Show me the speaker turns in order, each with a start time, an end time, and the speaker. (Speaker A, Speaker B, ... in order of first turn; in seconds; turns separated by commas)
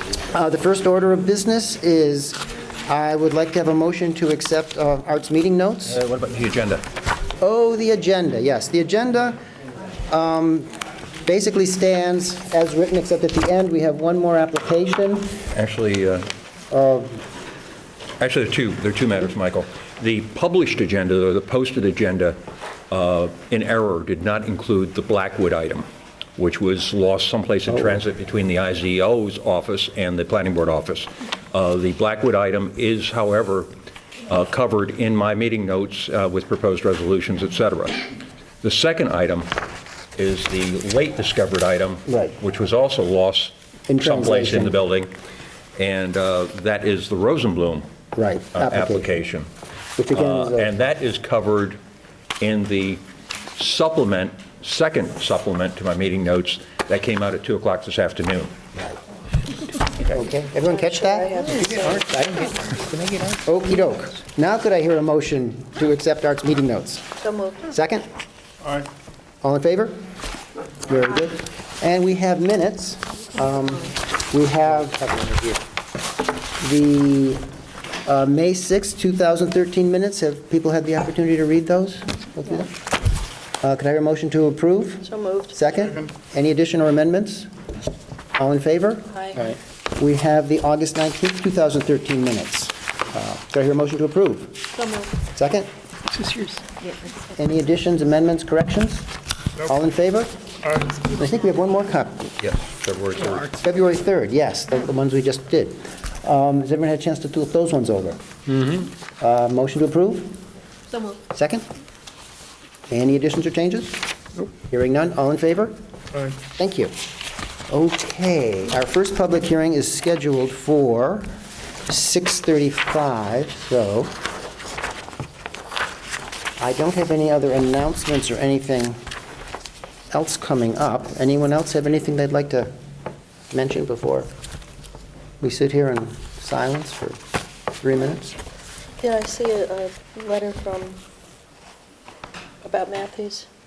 Speaker A: 0.3-6.0, Speaker B: 5.9-6.8, Speaker A: 7.4-9.4, Speaker A: 10.1-10.7, Speaker A: 11.2-15.4, Speaker B: 15.5-16.3, Speaker A: 16.7-17.2, Speaker B: 18.2-33.7, Speaker B: 34.3-38.0, Speaker B: 38.6-39.5, Speaker B: 40.1-45.1, Speaker A: 42.0-42.4, Speaker A: 43.9-44.8, Speaker B: 45.8-47.9, Speaker A: 48.1-49.2, Speaker B: 48.5-49.5, Speaker A: 50.0-50.7, Speaker B: 50.1-51.8, Speaker B: 52.4-53.0, Speaker B: 53.5-58.5, Speaker A: 59.9-68.1, Speaker C: 60.7-62.4, Speaker C: 67.2-67.6, Speaker A: 69.4-70.0, Speaker A: 70.8-75.6, Speaker A: 76.6-77.4, Speaker A: 78.0-82.7, Speaker A: 83.6-87.5, Speaker C: 85.0-85.5, Speaker A: 88.4-89.3, Speaker C: 89.2-89.5, Speaker A: 90.0-94.7, Speaker A: 95.3-95.7, Speaker A: 97.2-99.1, Speaker A: 99.6-102.3, Speaker B: 102.4-103.6, Speaker A: 103.5-110.4, Speaker A: 111.3-111.6, Speaker A: 112.9-114.0, Speaker A: 114.5-115.7, Speaker A: 116.4-116.9, Speaker A: 117.7-121.3, Speaker A: 121.9-124.1, Speaker A: 126.6-129.0, Speaker A: 130.1-132.7, Speaker A: 133.5-134.3, Speaker A: 135.4-137.2, Speaker A: 137.8-138.4, Speaker C: 139.0-141.0, Speaker C: 142.6-143.5